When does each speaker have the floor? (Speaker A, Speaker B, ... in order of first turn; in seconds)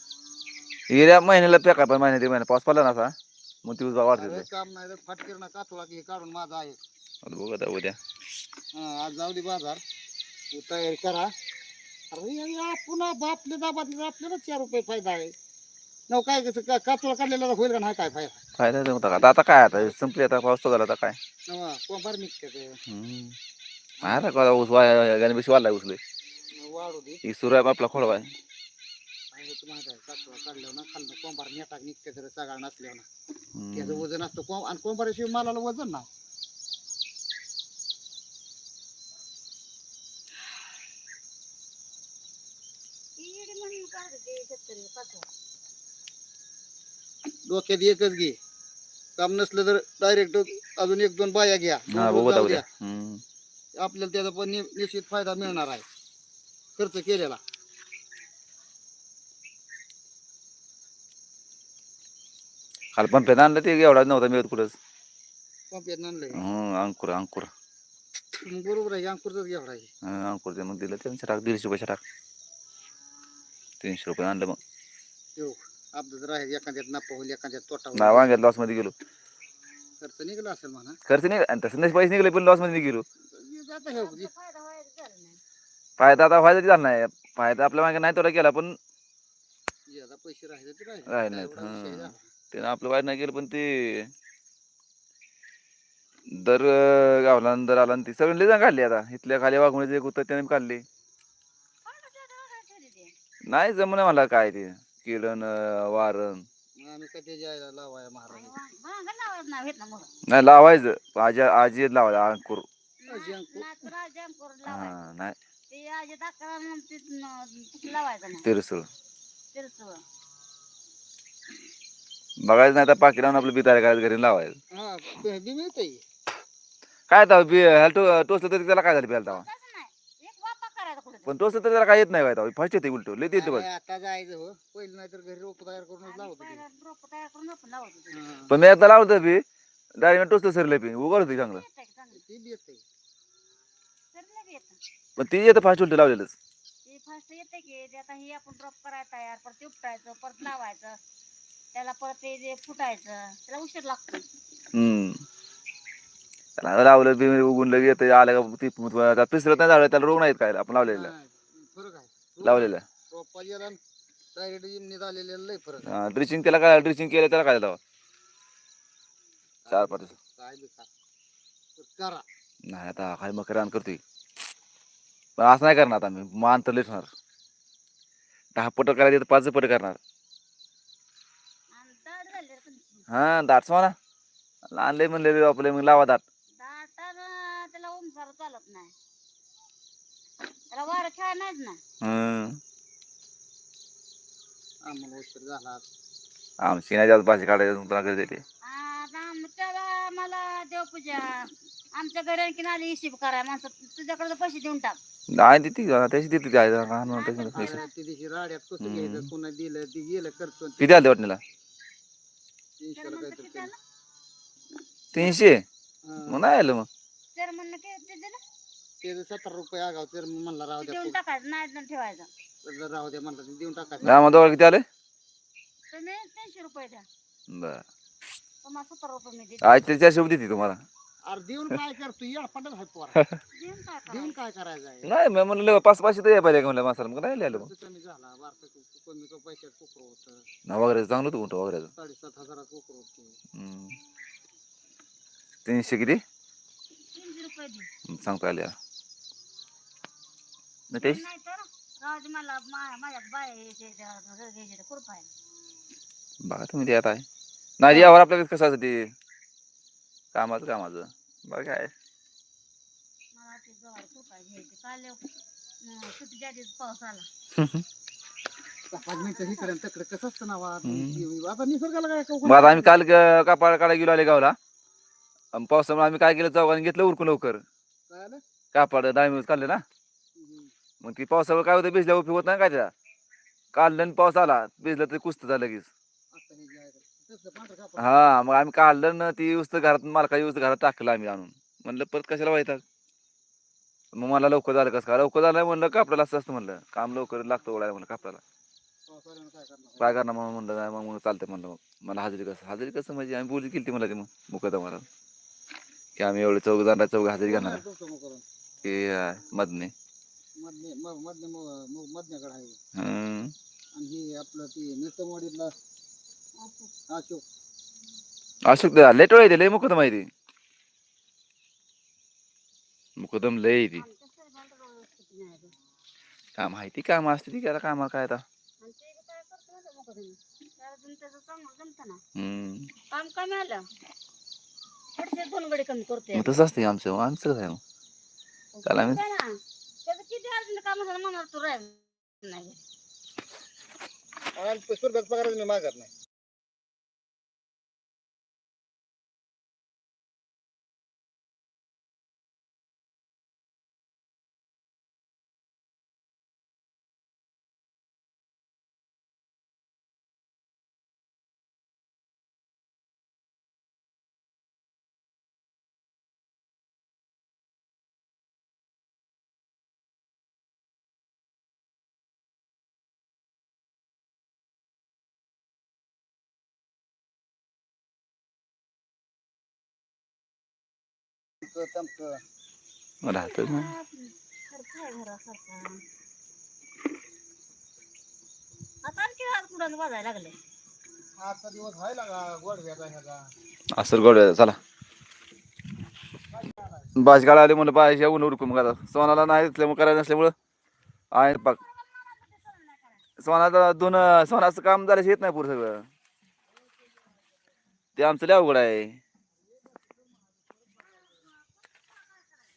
Speaker A: 0.9-4.5, 7.2-8.0, 18.6-21.2, 22.9-23.4, 24.0-26.0, 27.2-28.3, 33.5-34.1, 51.9-53.2, 62.9-64.8, 66.3-67.5, 70.0-72.0, 73.8-74.6, 78.0-78.9, 81.1-83.0, 86.0-88.8, 91.1-94.1, 96.3-100.8, 103.5-106.5, 110.3-112.7, 114.7-115.4, 118.4-118.9, 122.4-124.6, 127.1-129.4, 131.3-133.7, 138.5-139.4, 140.0-141.6, 145.2-146.3, 154.7-155.2, 156.6-161.1, 162.4-162.8, 165.8-167.8, 169.7-170.1, 172.7-174.0, 175.4-177.1, 178.6-180.0, 183.1-183.9, 184.7-186.2, 192.0-192.6, 196.6-198.4, 205.3-207.8, 208.8-209.3, 210.8-211.4, 215.1-215.7, 216.3-216.9, 224.0-224.8, 227.5-227.8, 229.6-230.8, 235.0-237.7, 240.7-241.9, 243.5-244.0, 245.7-246.2, 248.1-248.8, 250.9-251.2, 256.4-257.2, 257.8-259.1, 260.3-261.9, 267.6-267.9, 270.9-271.2, 272.4-274.6, 275.5-277.6, 278.7-279.8, 281.0-282.9, 283.7-285.9, 288.0-292.8, 294.1-298.4, 300.0-305.1, 306.2-307.8, 308.8-309.9, 312.9-313.5, 318.7-320.3, 323.2-324.1, 326.6-328.4, 332.4-332.9, 336.3-337.8, 338.9-339.2, 383.2-383.9, 393.9-394.8, 397.2-400.5, 401.3-401.8, 403.4-406.1, 408.2-409.2
Speaker B: 4.1-6.8, 8.7-9.8, 10.5-11.3, 12.1-15.3, 16.1-18.4, 21.5-22.8, 24.0-24.4, 26.6-27.2, 29.3-33.1, 33.7-36.1, 47.5-48.4, 49.2-52.6, 53.8-55.9, 56.8-57.4, 65.7-66.4, 68.3-69.9, 75.4-78.4, 80.0-81.0, 83.3-84.3, 89.9-92.2, 106.8-108.5, 113.1-113.9, 124.7-126.0, 133.3-136.6, 138.1-138.5, 142.2-142.8, 160.8-163.8, 164.4-165.9, 169.6-170.9, 171.8-172.2, 194.8-195.8, 207.6-211.0, 212.8-213.7, 216.0-216.4, 219.0-221.2, 222.6-224.4, 231.3-233.3, 234.1-235.1, 237.4-240.5, 241.9-243.4, 268.9-273.0, 278.1-278.4, 280.4-280.7, 286.3-288.2, 299.1-300.2, 307.4-308.4, 310.6-312.8, 313.9-315.7, 317.1-317.4, 344.6-346.1, 381.6-382.4, 391.4-393.5, 396.5-397.1
Speaker C: 43.2-45.3, 83.9-85.4, 101.9-103.1, 108.3-110.1, 113.0-115.0, 115.7-118.5, 119.5-120.0, 129.3-131.4, 136.0-138.2, 141.4-142.2, 144.1-144.8, 146.9-151.0, 151.7-154.2, 181.7-183.1, 186.6-188.9, 190.7-191.8, 198.6-205.0, 206.9-207.9, 212.9-213.8, 217.3-218.4, 220.8-222.3, 225.9-227.1, 228.6-229.9, 233.5-234.3, 247.1-247.9, 251.0-255.3, 263.4-265.2, 265.8-267.3, 269.2-269.7, 316.6-316.9, 323.9-325.7, 328.8-332.2, 333.1-333.8, 335.2-336.6, 338.7-342.8, 383.3-386.0, 389.0-390.5, 401.6-403.3